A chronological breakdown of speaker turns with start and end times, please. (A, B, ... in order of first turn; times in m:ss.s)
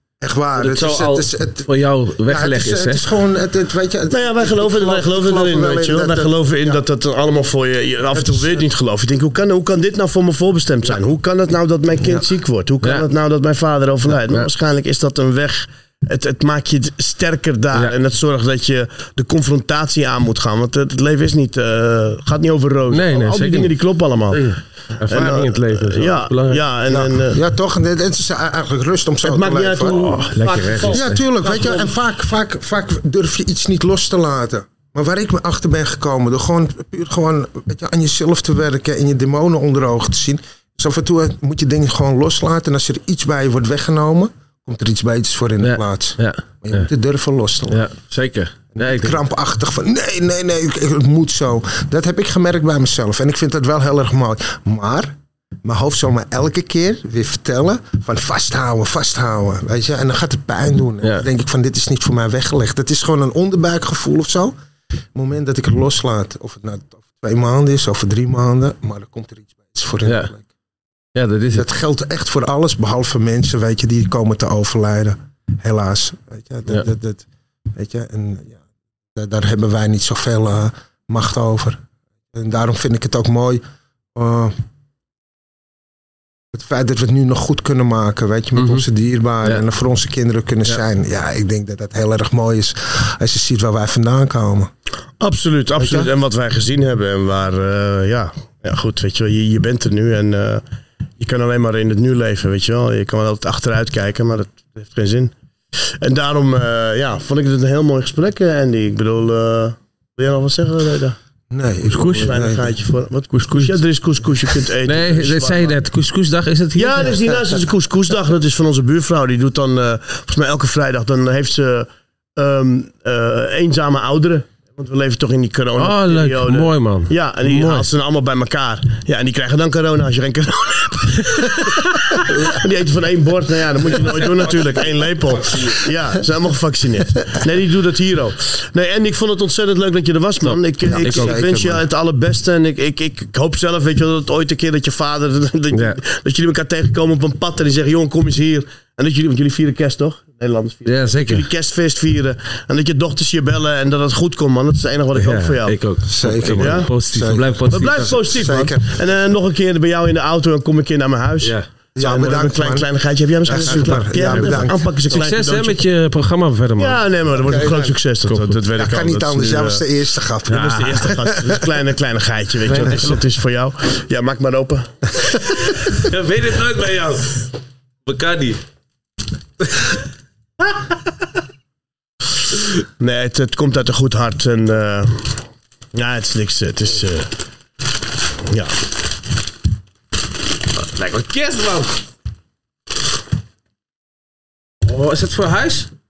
0:00.2-0:01.7 A
0:00.6-0:03.0 B
0:02.2-0:06.8 A
0:04.1-0:24.5 C
0:08.1-0:08.6 A
0:22.9-0:23.7 B
0:24.3-0:26.6 B
0:25.1-0:27.4 C
0:26.9-0:30.0 A
0:29.2-0:32.0 C
0:29.9-0:31.2 B
0:30.9-0:47.8 A
0:45.6-0:46.9 B
0:47.7-0:49.2 B
0:48.7-1:04.5 A
1:05.1-1:10.4 A
1:10.0-1:10.3 B
1:11.1-1:11.7 B
1:11.5-1:18.6 A
1:19.1-1:21.8 A
1:22.3-1:23.6 A
1:24.1-1:24.6 A
1:26.5-1:34.7 A
1:28.6-1:28.8 B
1:35.2-1:40.6 C
1:35.8-1:36.1 A
1:41.2-1:51.2 C
1:51.5-1:52.7 A
1:51.9-1:55.8 C
1:52.0-1:52.3 B
1:53.4-1:53.7 B
1:54.8-1:57.2 B
1:56.8-2:35.8 C
2:05.8-2:07.9 B
2:20.4-2:21.4 B
2:20.9-2:21.8 A
2:25.7-2:26.0 B
2:30.8-2:31.4 B
2:35.1-2:38.2 B
2:36.1-2:37.6 A
2:36.6-2:36.9 C
2:37.7-2:45.8 C
2:38.2-2:38.9 A
2:41.9-2:42.9 A
2:43.5-2:45.2 A
2:43.5-2:47.0 B
2:46.8-2:49.8 C
2:47.4-2:48.0 A
2:48.2-2:48.6 B
2:48.7-2:51.6 A
2:50.4-2:55.4 C
2:50.5-2:51.2 B
2:52.7-2:53.1 A
2:55.4-2:57.5 B
2:58.0-2:58.6 B
2:59.6-3:00.0 B
3:03.0-3:07.3 C
3:08.4-3:08.8 C
3:10.7-3:12.0 B
3:14.8-3:15.9 B